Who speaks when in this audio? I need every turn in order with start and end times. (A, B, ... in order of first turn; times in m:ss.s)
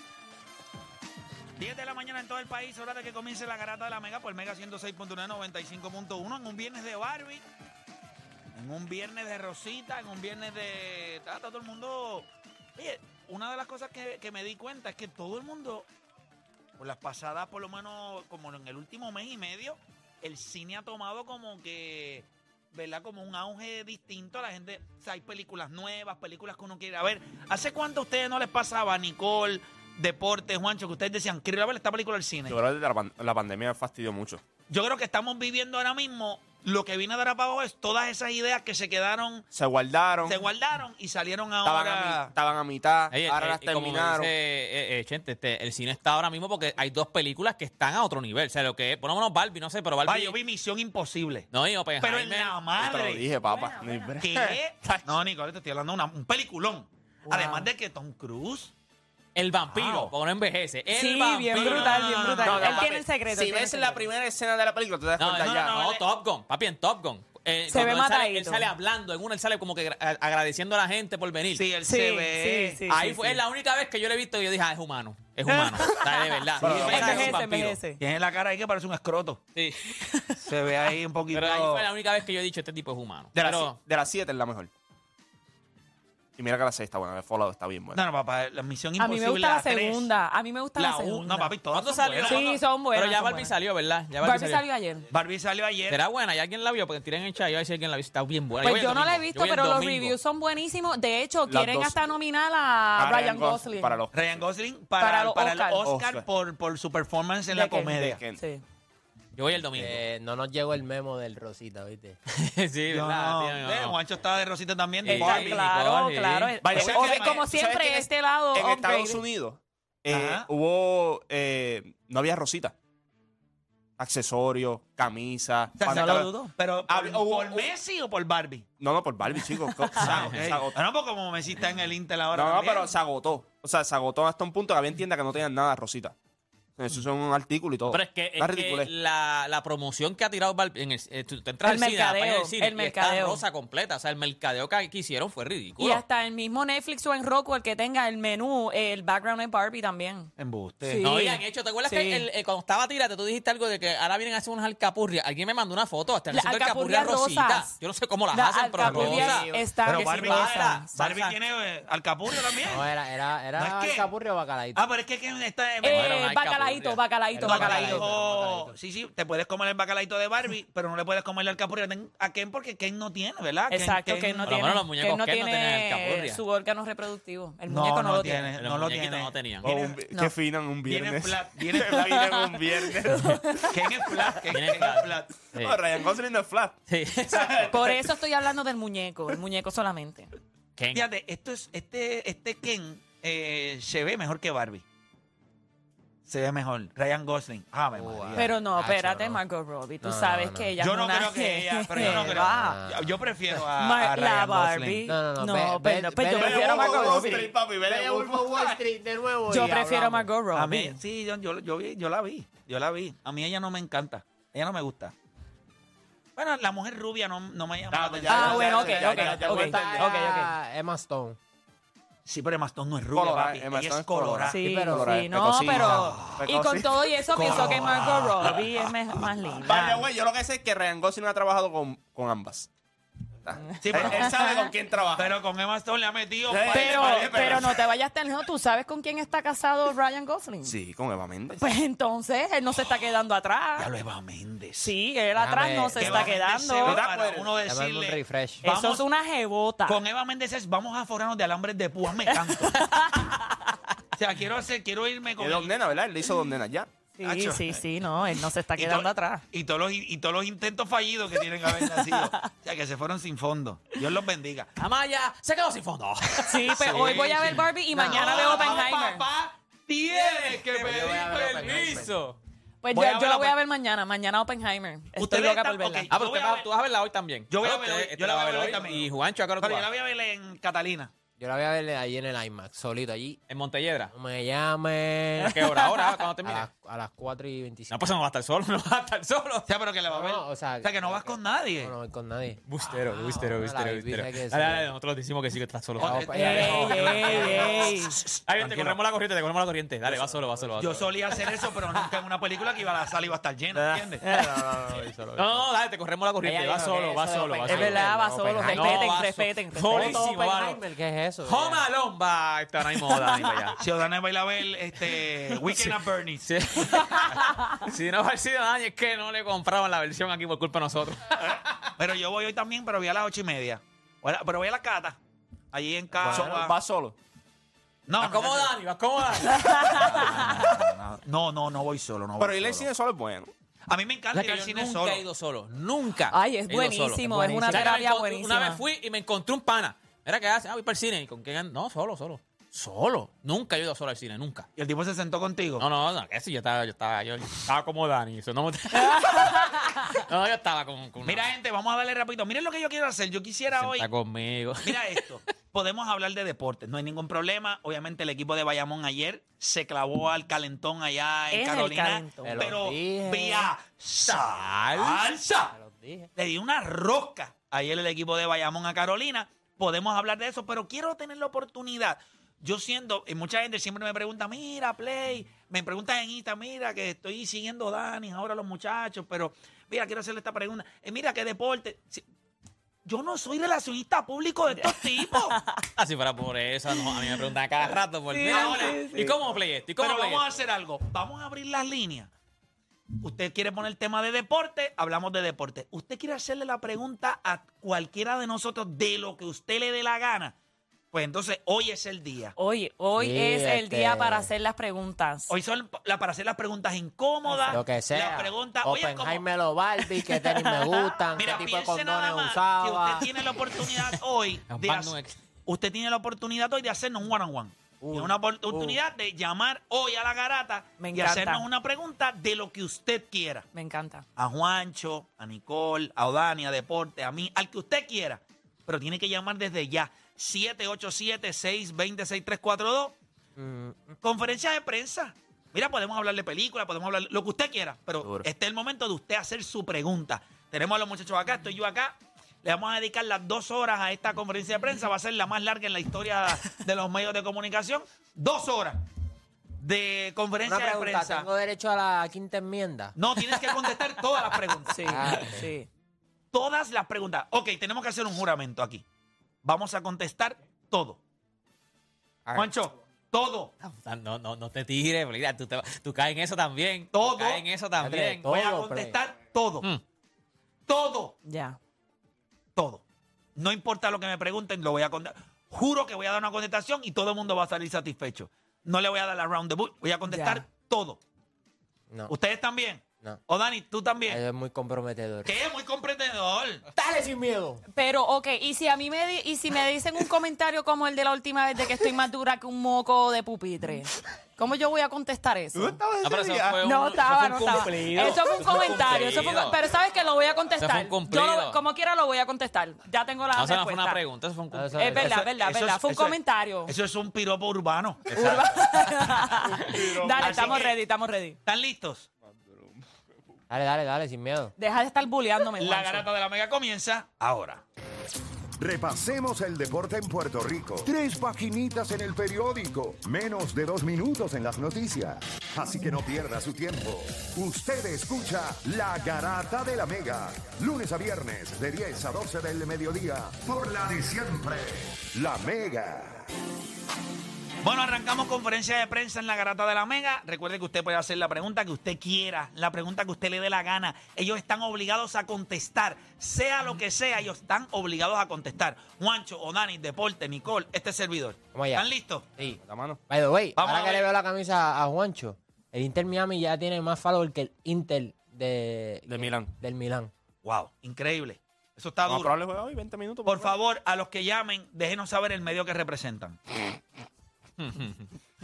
0:01.6-0:07.4 A
0:08.5-0:15.9 A
0:16.8-0:32.6 A
0:32.5-0:34.4 B
0:34.7-0:39.5 A
0:39.5-0:40.4 B
0:40.2-0:42.3 A
0:41.6-0:44.3 B
0:43.1-0:50.4 C
0:50.0-0:51.5 A
0:51.5-0:52.5 C
0:52.0-0:53.3 A
0:52.8-0:55.2 B
0:53.4-0:54.2 D
0:54.2-0:58.7 A
0:57.3-0:57.6 D
0:59.3-1:02.8 C
0:59.7-1:00.1 A
1:00.9-1:04.0 D
1:01.5-1:02.8 A
1:02.4-1:05.8 B
1:05.2-1:11.6 C
1:05.4-1:06.0 A
1:07.7-1:08.7 D
1:11.5-1:12.8 A
1:11.8-1:13.4 D
1:12.9-1:17.8 C
1:15.4-1:18.0 D
1:16.6-1:17.4 B
1:18.0-1:19.4 A
1:19.5-1:19.8 C
1:20.1-1:20.4 D
1:20.4-1:21.8 A
1:21.3-1:23.8 C
1:23.3-1:24.7 B
1:26.4-1:28.0 B
1:27.9-1:30.1 A
1:29.0-1:31.5 D
1:30.8-1:32.4 A
1:31.7-1:34.6 C
1:32.2-1:33.5 D
1:34.2-1:35.0 D
1:35.1-1:36.0 A
1:35.9-1:40.1 C
1:38.6-1:44.0 D
1:41.5-1:42.0 B
1:43.0-1:44.4 B
1:44.1-1:48.2 A
1:45.0-1:45.8 D
1:45.8-1:46.2 B
1:47.5-1:48.6 D
1:47.8-1:48.4 B
1:49.3-1:50.0 C
1:49.8-1:52.2 E
1:52.4-1:54.0 C
1:52.9-1:55.6 A
1:55.0-1:56.6 C
1:55.1-1:55.6 B
1:55.1-1:59.2 D
1:56.6-2:02.7 B
1:56.7-1:57.4 A
2:00.1-2:00.5 A
2:04.0-2:06.3 B
2:05.8-2:08.6 A
2:05.9-2:06.5 D
2:06.8-2:07.7 B
2:08.8-2:10.8 B
2:10.0-2:12.9 A
2:10.0-2:10.4 C
2:12.3-2:16.2 B
2:16.8-2:18.9 B
2:17.9-2:26.0 C
2:21.6-2:23.4 D
2:25.8-2:30.3 D
2:30.4-2:31.0 A
2:30.8-2:32.2 D
2:31.0-2:40.8 C
2:36.3-2:37.8 D
2:38.3-2:41.3 D
2:38.8-2:39.7 E
2:39.8-2:42.9 A
2:42.6-2:44.8 E
2:43.6-2:44.1 A
2:44.7-2:46.2 A
2:45.8-2:48.1 D
2:45.9-2:47.0 C
2:47.3-2:48.7 E
2:47.5-2:54.5 A
2:53.7-2:58.5 D
2:54.5-2:56.4 C
2:57.7-3:00.0 A
2:58.6-2:59.7 C
2:59.6-3:03.6 B
3:00.9-3:02.1 A
3:01.9-3:03.7 D
3:03.7-3:05.3 A
3:04.5-3:05.8 C
3:05.6-3:06.8 B
3:06.9-3:07.7 C
3:07.3-3:07.8 A
3:07.7-3:10.3 D
3:10.8-3:11.0 C
3:10.9-3:14.8 A
3:16.2-3:18.5 A
3:17.9-3:19.4 E
3:18.4-3:22.8 D
3:20.0-3:20.7 E
3:20.8-3:25.0 A
3:21.9-3:23.1 E
3:23.5-3:27.5 D
3:25.0-3:30.3 E
3:26.3-3:28.8 B
3:29.5-3:31.0 D
3:30.5-3:35.1 A
3:36.4-3:39.6 A
3:37.9-3:40.1 B
3:38.3-3:40.5 D
3:39.6-3:41.4 E
3:42.2-3:44.6 A
3:43.1-3:48.6 B
3:44.5-3:50.1 D
3:44.5-3:45.1 E
3:45.6-3:46.5 A
3:47.3-3:48.6 A
3:49.6-3:52.7 B
3:53.4-3:55.4 B
3:53.7-3:54.7 D
3:53.8-3:54.4 A
3:55.2-3:57.7 A
3:56.5-3:57.8 B
3:56.7-4:00.8 D
4:00.6-4:01.7 B
4:01.6-4:03.9 D
4:03.8-4:04.9 A
4:04.8-4:07.0 D
4:05.4-4:06.3 E
4:06.0-4:09.0 A
4:06.8-4:07.6 B
4:07.6-4:08.6 E
4:08.6-4:10.0 D
4:09.8-4:12.8 A
4:12.3-4:13.7 D
4:14.2-4:15.8 A
4:15.4-4:16.9 B
4:17.2-4:19.4 D
4:17.2-4:17.8 A
4:18.8-4:24.7 A
4:21.7-4:22.4 D
4:24.8-4:27.6 C
4:26.4-4:29.2 D
4:26.8-4:31.7 A
4:27.9-4:28.8 E
4:28.3-4:28.6 C
4:30.1-4:32.4 C
4:30.8-4:32.1 E
4:32.8-4:36.1 D
4:32.9-4:33.6 A
4:35.2-4:36.6 A
4:36.1-4:39.9 C
4:37.5-4:41.1 A
4:41.4-4:43.4 E
4:43.5-4:44.1 C
4:44.1-4:45.6 E
4:45.5-4:46.7 C
4:45.6-4:46.1 D
4:46.4-4:47.9 E
4:47.9-4:49.6 C
4:49.7-4:51.9 A
4:50.1-4:54.9 E
4:52.7-4:56.6 C
4:56.0-4:59.0 A
4:56.0-4:58.0 E
4:56.4-4:58.2 D
4:58.5-5:01.0 C
5:00.1-5:01.0 E
5:00.8-5:04.2 A
5:03.8-5:08.1 C
5:04.2-5:05.7 E
5:06.4-5:09.2 E
5:07.6-5:10.3 D
5:08.7-5:10.8 C
5:09.9-5:11.8 E
5:11.4-5:13.8 C
5:13.1-5:13.4 D
5:13.8-5:16.5 A
5:15.5-5:21.4 C
5:22.0-5:25.2 A
5:25.7-5:26.7 A
5:26.2-5:27.2 B
5:28.1-5:28.7 A
5:28.2-5:30.8 C
5:29.5-5:30.1 D
5:30.0-5:32.9 A
5:32.4-5:33.5 B
5:33.9-5:35.2 A
5:34.3-5:44.7 C
5:36.3-5:38.8 D
5:37.2-5:37.9 E
5:44.8-5:45.8 A
5:45.8-5:51.5 C
5:49.0-5:50.0 D
5:51.2-5:54.1 A
5:53.7-5:55.2 C
5:54.8-6:05.7 A
6:01.5-6:02.6 D
6:02.4-6:03.7 E
6:04.3-6:06.3 E
6:06.4-6:22.2 A
6:23.0-6:25.6 A
6:24.8-6:25.8 D
6:26.0-6:30.4 C
6:28.3-6:29.3 D
6:28.4-6:29.3 A
6:30.0-6:32.3 A
6:33.2-6:40.5 A
6:41.1-6:42.5 A
6:42.6-6:45.5 D
6:43.2-6:44.5 E
6:45.5-6:49.4 A
6:47.5-6:53.4 E
6:50.2-6:51.2 D
6:51.3-6:55.1 A
6:54.7-6:55.3 C
6:55.6-7:03.6 A
6:58.0-6:59.0 E
7:01.0-7:01.6 D
7:03.7-7:04.2 D
7:04.4-7:13.1 A
7:13.6-7:14.2 E
7:14.2-7:29.0 A
7:18.2-7:18.5 B
7:29.8-7:31.5 A
7:30.6-7:33.1 E
7:33.2-7:35.1 A
7:34.9-7:35.9 D
7:35.0-7:35.7 E
7:36.5-7:39.0 A
7:39.6-7:41.2 A
7:42.4-7:42.7 E
7:42.5-7:43.7 A
7:43.8-7:48.5 C
7:47.1-7:47.6 A
7:48.0-7:49.2 E
7:48.4-7:49.9 A
7:50.9-7:51.4 A
7:51.4-7:51.8 D
7:52.8-7:53.0 A
7:53.6-8:01.2 A
8:00.3-8:00.6 D
8:02.3-8:04.4 A
8:04.3-8:05.5 E
8:05.4-8:06.8 A
8:06.9-8:07.8 E
8:07.9-8:16.0 D
8:15.7-8:16.8 B
8:16.2-8:19.8 C
8:16.8-8:24.2 D
8:20.8-8:21.8 C
8:23.6-8:25.2 C
8:24.7-8:25.2 E
8:25.0-8:26.9 D
8:25.2-8:28.3 A
8:28.3-8:28.6 B
8:28.4-8:31.6 D
8:29.6-8:30.8 B
8:30.4-8:31.0 A
8:31.6-8:32.3 A
8:32.5-8:33.0 B
8:33.7-8:34.7 E
8:34.8-8:36.3 D
8:35.8-8:37.8 A
8:38.8-8:56.4 F
8:57.8-9:12.5 A
9:11.7-9:12.0 E
9:12.6-9:20.3 E
9:12.8-9:13.2 B
9:13.8-9:14.3 A
9:19.3-9:19.7 B
9:20.6-9:22.5 A
9:22.2-9:23.8 B
9:23.4-9:26.6 A
9:27.8-9:28.3 C